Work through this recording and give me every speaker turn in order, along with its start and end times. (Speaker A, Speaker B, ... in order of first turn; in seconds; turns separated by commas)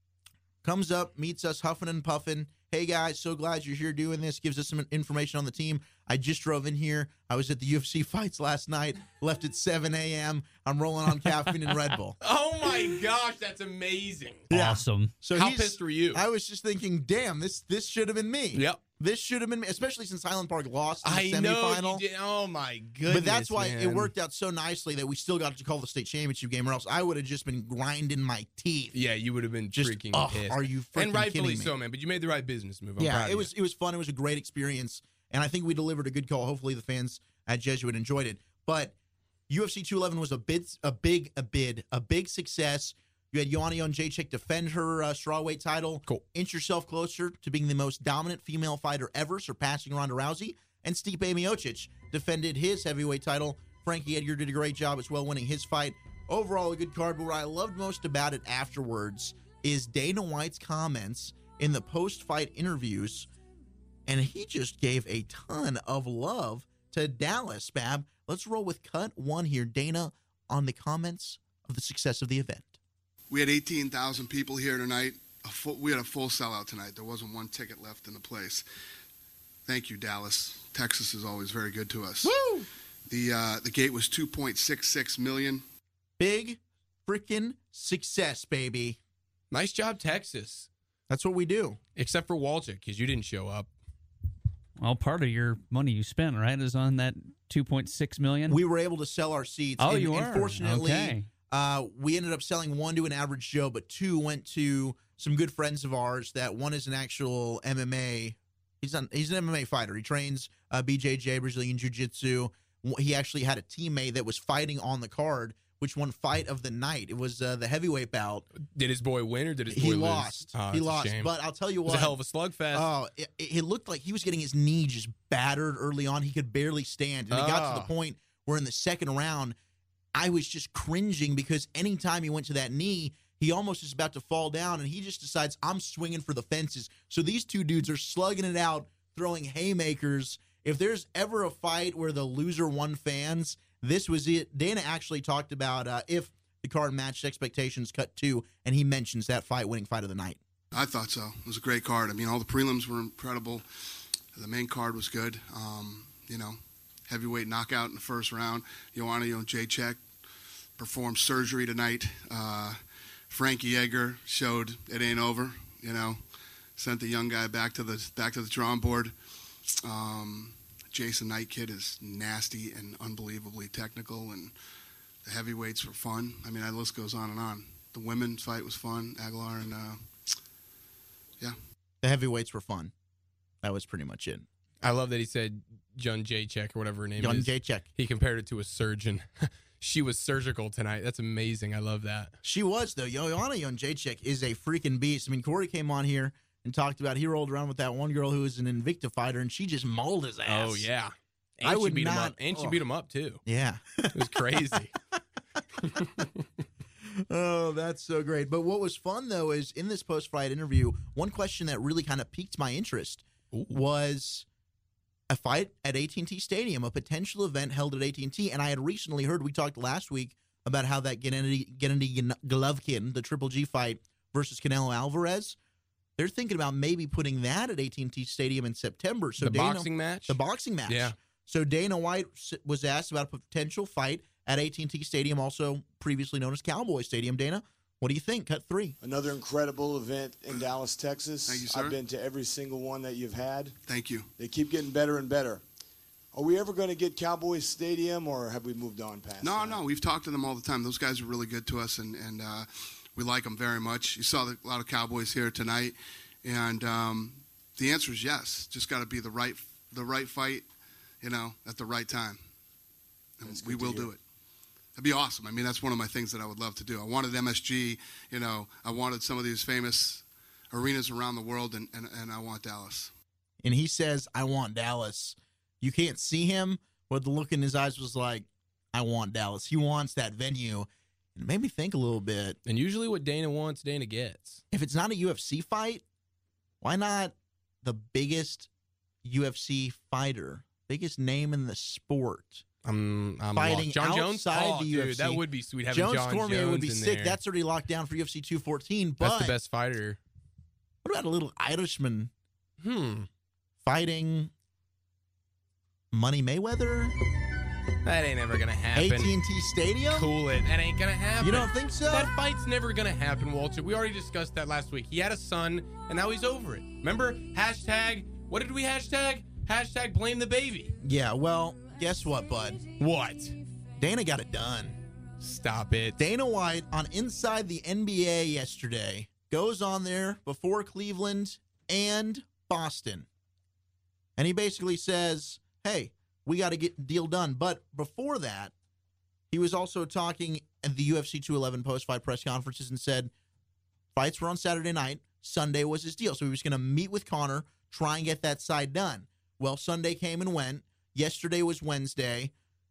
Speaker A: 0.6-12.2, Speaker B: 12.2-14.5, Speaker A: 14.5-22.0, Speaker C: 14.5-15.1, Speaker B: 15.3-16.2, Speaker B: 18.5-18.8, Speaker B: 21.0-24.1, Speaker A: 23.1-28.9, Speaker B: 28.9-33.5, Speaker A: 29.7-31.7, Speaker A: 33.0-38.9, Speaker A: 39.5-63.3, Speaker A: 64.1-72.8, Speaker D: 73.3-78.7, Speaker D: 79.7-82.3, Speaker A: 82.2-82.7, Speaker D: 83.1-85.6, Speaker A: 86.2-89.0, Speaker B: 89.5-90.7, Speaker A: 91.1-91.8, Speaker B: 92.0-93.7, Speaker C: 94.8-98.6, Speaker A: 98.5-118.5, Speaker C: 99.8-101.3, Speaker B: 118.6-121.3, Speaker A: 119.7-122.2, Speaker B: 121.9-122.9, Speaker A: 122.7-129.6, Speaker B: 127.3-127.9, Speaker A: 130.2-150.4, Speaker D: 150.7-153.7, Speaker D: 154.3-160.0, Speaker D: 160.8-162.8, Speaker D: 163.3-166.2, Speaker D: 166.8-169.1, Speaker D: 169.8-174.5, Speaker D: 175.2-180.0, Speaker A: 182.0-182.9, Speaker A: 183.6-184.5, Speaker B: 184.8-192.3, Speaker A: 187.2-187.8, Speaker A: 192.4-200.9, Speaker B: 200.5-203.4, Speaker A: 201.6-202.8, Speaker A: 203.4-204.8, Speaker B: 204.1-204.9, Speaker B: 205.8-206.3, Speaker A: 207.0-214.5, Speaker A: 215.3-225.6, Speaker A: 226.2-239.0, Speaker B: 229.4-231.2, Speaker E: 239.0-243.8, Speaker D: 241.5-242.0, Speaker D: 243.9-244.3, Speaker E: 244.4-245.6, Speaker E: 246.3-249.8, Speaker D: 249.4-260.7, Speaker D: 261.2-262.4, Speaker D: 263.4-264.2, Speaker E: 263.4-264.1, Speaker D: 265.0-273.1, Speaker A: 273.6-282.6, Speaker B: 282.7-284.6, Speaker A: 284.7-286.0, Speaker A: 286.8-288.7, Speaker A: 289.2-292.6, Speaker B: 292.9-297.4, Speaker A: 293.6-299.5, Speaker B: 299.2-300.2, Speaker A: 301.0-302.3, Speaker B: 302.8-303.3, Speaker A: 303.8-304.5, Speaker A: 306.1-307.1, Speaker B: 308.1-309.3, Speaker A: 308.9-310.3, Speaker B: 310.1-320.9, Speaker A: 311.4-312.3, Speaker A: 321.0-322.8, Speaker B: 323.0-323.6, Speaker A: 324.0-325.0, Speaker B: 325.4-326.2, Speaker A: 326.2-333.3, Speaker A: 334.4-338.7, Speaker A: 339.5-343.3, Speaker A: 344.1-352.5